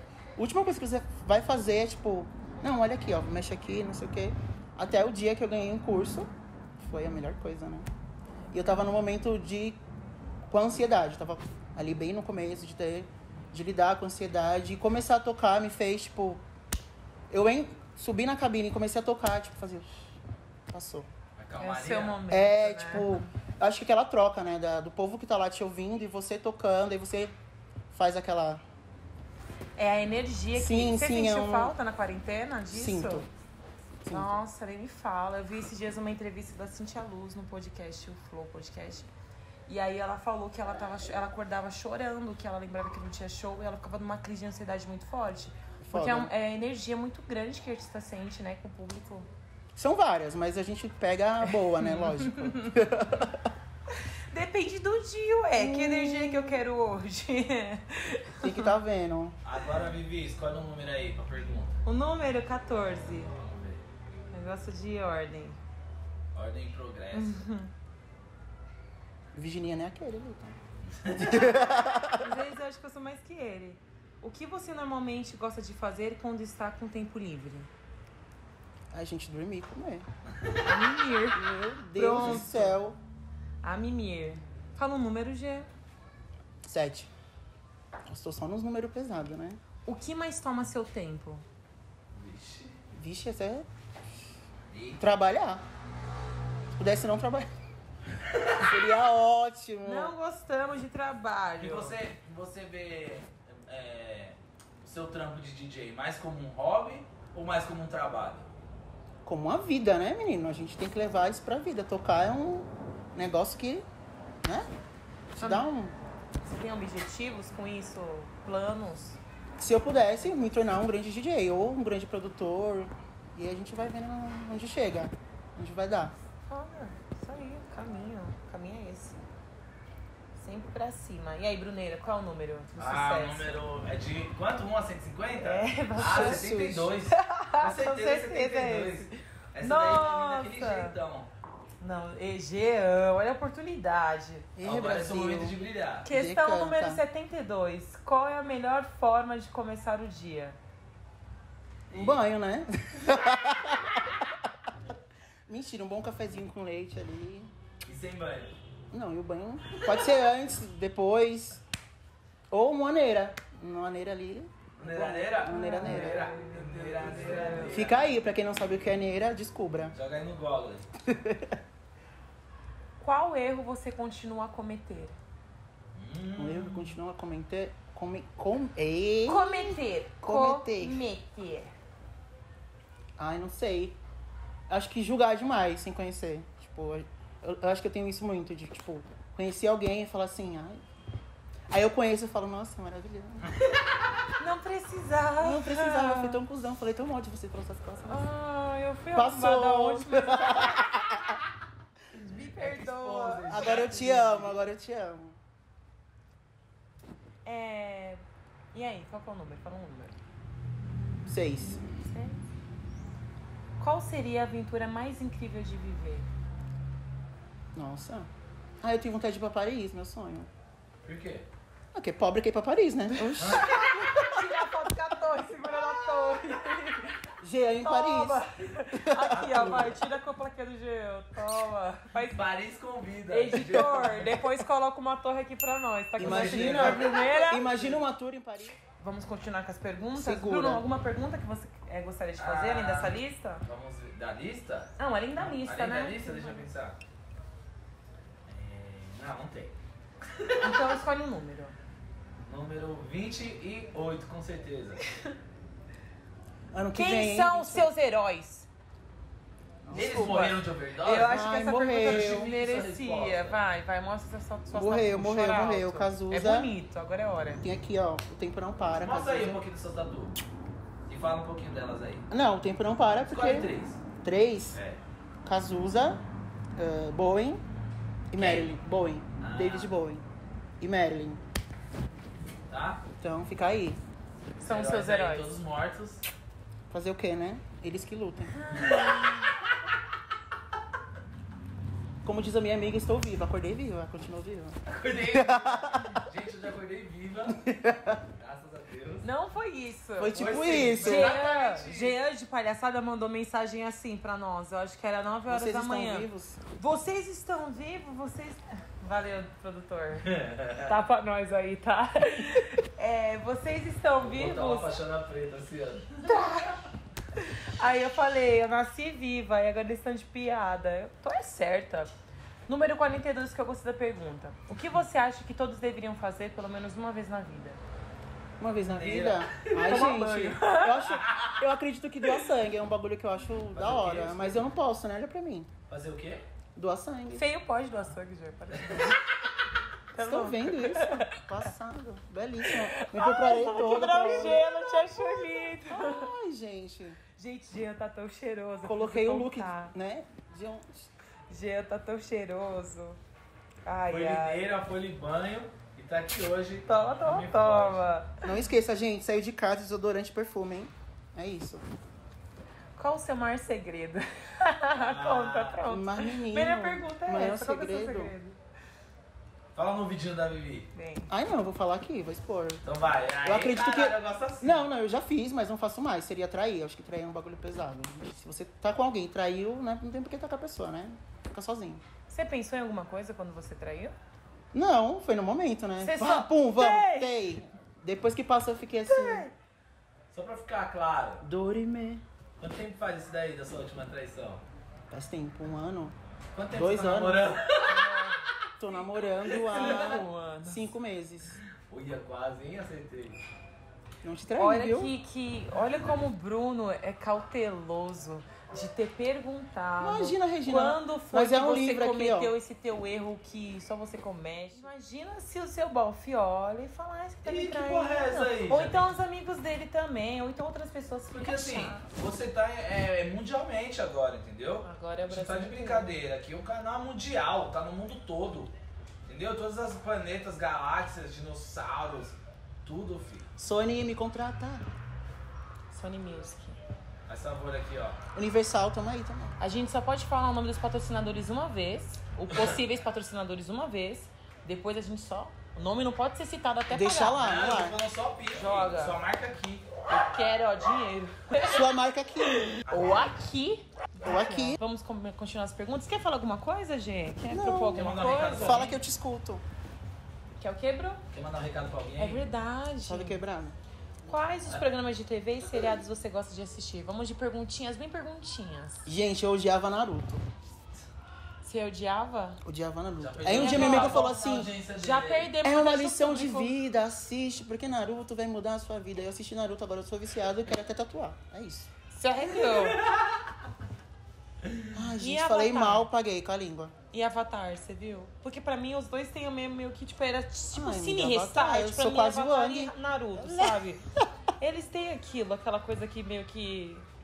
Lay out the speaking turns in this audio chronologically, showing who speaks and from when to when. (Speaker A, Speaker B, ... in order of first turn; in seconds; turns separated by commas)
Speaker A: 0.4-7.8, Speaker A: 8.5-9.8, Speaker A: 10.5-16.4, Speaker A: 17.3-20.1, Speaker A: 20.7-21.1, Speaker B: 21.4-22.2, Speaker C: 21.6-23.3, Speaker A: 22.3-27.3, Speaker A: 27.9-28.6, Speaker C: 29.8-33.3, Speaker A: 30.5-31.7, Speaker A: 32.7-33.2, Speaker A: 34.0-34.4, Speaker C: 34.1-39.1, Speaker C: 39.6-49.3, Speaker A: 45.8-46.3, Speaker A: 49.8-53.5, Speaker C: 51.7-52.7, Speaker C: 54.3-58.7, Speaker A: 55.5-56.6, Speaker A: 58.4-59.4, Speaker B: 59.4-61.8, Speaker C: 61.8-63.3, Speaker B: 63.3-63.8, Speaker C: 64.3-65.6, Speaker B: 66.3-67.4, Speaker C: 67.1-67.7, Speaker A: 69.3-70.6, Speaker B: 70.9-71.7, Speaker A: 71.2-72.3, Speaker C: 72.2-77.7, Speaker A: 78.9-80.0, Speaker B: 80.4-80.7, Speaker C: 80.6-82.7, Speaker A: 81.3-83.0, Speaker B: 82.2-82.6, Speaker C: 83.6-85.7, Speaker A: 86.6-87.1, Speaker A: 88.1-89.6, Speaker C: 89.8-91.4, Speaker B: 92.1-92.8, Speaker A: 92.9-93.7, Speaker B: 94.7-95.0, Speaker A: 95.0-95.6, Speaker A: 96.7-97.5, Speaker B: 98.2-98.8, Speaker A: 98.6-100.1, Speaker C: 99.8-102.0, Speaker B: 101.6-108.5, Speaker A: 109.2-113.8, Speaker A: 114.4-114.7, Speaker A: 115.3-116.0, Speaker C: 115.4-115.7, Speaker C: 116.4-119.2, Speaker A: 119.6-126.1, Speaker C: 126.5-129.2, Speaker C: 130.3-133.6, Speaker B: 132.8-141.3, Speaker C: 135.3-136.4, Speaker A: 136.0-136.9, Speaker C: 137.1-140.9, Speaker C: 141.8-144.5, Speaker A: 144.6-147.0, Speaker B: 144.6-146.1, Speaker C: 146.0-150.6, Speaker A: 151.9-154.5, Speaker B: 151.9-152.2, Speaker A: 155.5-157.5, Speaker B: 157.8-158.6, Speaker A: 158.9-161.6, Speaker B: 159.7-160.2, Speaker A: 162.5-166.3, Speaker B: 164.8-168.1, Speaker C: 165.5-167.8, Speaker A: 167.7-169.9, Speaker B: 169.9-170.9, Speaker A: 171.0-171.6, Speaker C: 173.0-175.2, Speaker B: 175.9-176.9, Speaker A: 176.4-181.0, Speaker C: 179.2-181.7, Speaker A: 183.2-184.0, Speaker A: 184.7-190.8, Speaker A: 191.7-193.5, Speaker B: 193.5-193.8, Speaker C: 194.4-196.4, Speaker A: 195.4-198.2, Speaker C: 198.1-200.8, Speaker A: 199.1-201.4, Speaker C: 202.1-203.8, Speaker B: 202.3-204.6, Speaker A: 203.5-205.4, Speaker C: 207.4-208.2, Speaker C: 208.7-210.2, Speaker A: 211.2-211.8, Speaker C: 212.0-212.4, Speaker C: 213.8-216.3, Speaker A: 217.7-218.3, Speaker A: 218.8-220.5, Speaker B: 221.0-221.5, Speaker A: 221.9-224.7, Speaker B: 223.3-223.9, Speaker C: 223.5-227.2, Speaker B: 226.1-226.5, Speaker A: 227.4-228.4, Speaker C: 227.8-232.4, Speaker A: 228.9-229.4, Speaker B: 229.3-230.1, Speaker B: 232.2-234.4, Speaker C: 233.3-237.7, Speaker B: 236.2-238.0, Speaker A: 236.2-238.8, Speaker C: 239.0-243.6, Speaker A: 240.1-240.8, Speaker B: 242.4-247.0, Speaker C: 245.0-246.7, Speaker B: 248.5-250.9, Speaker C: 250.6-251.7, Speaker B: 252.4-255.0, Speaker A: 256.7-257.9, Speaker C: 256.9-258.7, Speaker A: 259.9-260.4, Speaker B: 259.9-263.6, Speaker C: 259.9-267.6, Speaker A: 261.2-262.5, Speaker A: 264.7-266.7, Speaker A: 267.6-269.6, Speaker B: 269.0-270.4, Speaker B: 271.1-272.2, Speaker A: 272.3-273.7, Speaker B: 273.3-274.0, Speaker A: 274.2-274.8, Speaker B: 274.7-275.0, Speaker A: 275.4-276.2, Speaker A: 276.8-277.6, Speaker A: 278.3-280.2, Speaker B: 278.4-278.8, Speaker B: 279.4-279.9, Speaker A: 280.8-281.4, Speaker B: 282.7-283.0, Speaker A: 283.2-284.0, Speaker C: 284.6-285.5, Speaker B: 284.6-286.3, Speaker A: 286.9-288.5, Speaker C: 288.5-289.5, Speaker A: 292.2-296.2, Speaker B: 294.9-297.7, Speaker A: 297.6-298.2, Speaker B: 298.4-299.2, Speaker C: 299.2-306.3, Speaker A: 300.2-301.4, Speaker B: 300.3-302.2, Speaker A: 305.5-306.6, Speaker C: 306.8-314.9, Speaker B: 310.2-310.9, Speaker B: 314.2-316.4, Speaker C: 316.2-316.8, Speaker C: 317.4-322.1, Speaker C: 322.7-327.8, Speaker A: 328.6-335.7, Speaker B: 328.9-330.1, Speaker C: 329.7-331.1, Speaker B: 331.1-331.6, Speaker B: 333.7-334.6, Speaker B: 335.9-336.4, Speaker A: 336.8-337.4, Speaker C: 337.3-339.5, Speaker B: 338.7-339.1, Speaker C: 340.1-341.4, Speaker A: 340.2-347.2, Speaker C: 342.6-346.3, Speaker C: 347.4-349.9, Speaker A: 348.8-351.1, Speaker C: 351.5-353.2, Speaker C: 353.8-354.6, Speaker B: 354.1-358.1, Speaker C: 356.9-358.4, Speaker A: 358.4-361.9, Speaker C: 363.0-368.6, Speaker B: 364.9-365.8, Speaker A: 365.9-368.3, Speaker B: 369.7-370.9, Speaker C: 370.9-371.3, Speaker A: 371.3-372.8, Speaker B: 372.8-374.9, Speaker A: 373.4-382.0, Speaker C: 382.3-384.1, Speaker A: 384.7-389.5, Speaker C: 386.0-387.4, Speaker C: 389.1-389.5, Speaker B: 390.3-391.4, Speaker A: 391.4-392.2, Speaker B: 392.6-394.6, Speaker A: 395.1-396.1, Speaker B: 396.5-398.1, Speaker A: 396.7-397.6, Speaker C: 397.8-398.4, Speaker A: 398.8-401.6, Speaker C: 399.5-400.9, Speaker B: 399.5-400.2, Speaker B: 401.9-403.4, Speaker A: 404.2-405.1, Speaker C: 404.6-422.1, Speaker A: 410.0-412.5, Speaker B: 417.4-419.1, Speaker B: 421.3-428.7, Speaker C: 424.8-426.1, Speaker B: 429.2-433.5, Speaker A: 433.6-434.9, Speaker C: 435.9-436.8, Speaker B: 437.3-438.2, Speaker A: 438.3-439.6, Speaker C: 439.6-447.6, Speaker B: 442.5-442.7, Speaker A: 446.9-448.0, Speaker B: 447.4-449.9, Speaker C: 448.5-449.2, Speaker C: 450.1-451.9, Speaker A: 451.6-452.7, Speaker C: 452.7-458.9, Speaker B: 452.9-453.3, Speaker A: 454.2-454.8, Speaker A: 457.5-459.6, Speaker B: 457.9-458.9, Speaker C: 460.6-461.2, Speaker B: 461.3-462.4, Speaker C: 462.2-463.4, Speaker A: 463.1-463.8, Speaker C: 464.2-469.1, Speaker A: 469.1-470.4, Speaker C: 471.6-472.6, Speaker A: 472.6-474.7, Speaker B: 473.2-475.5, Speaker C: 473.5-474.3, Speaker C: 474.9-476.8, Speaker A: 475.6-481.9, Speaker C: 482.1-483.1, Speaker B: 482.7-483.2, Speaker B: 484.6-484.9, Speaker A: 484.9-486.9, Speaker C: 485.2-486.1, Speaker C: 487.1-494.0, Speaker A: 490.7-494.2, Speaker C: 494.6-497.1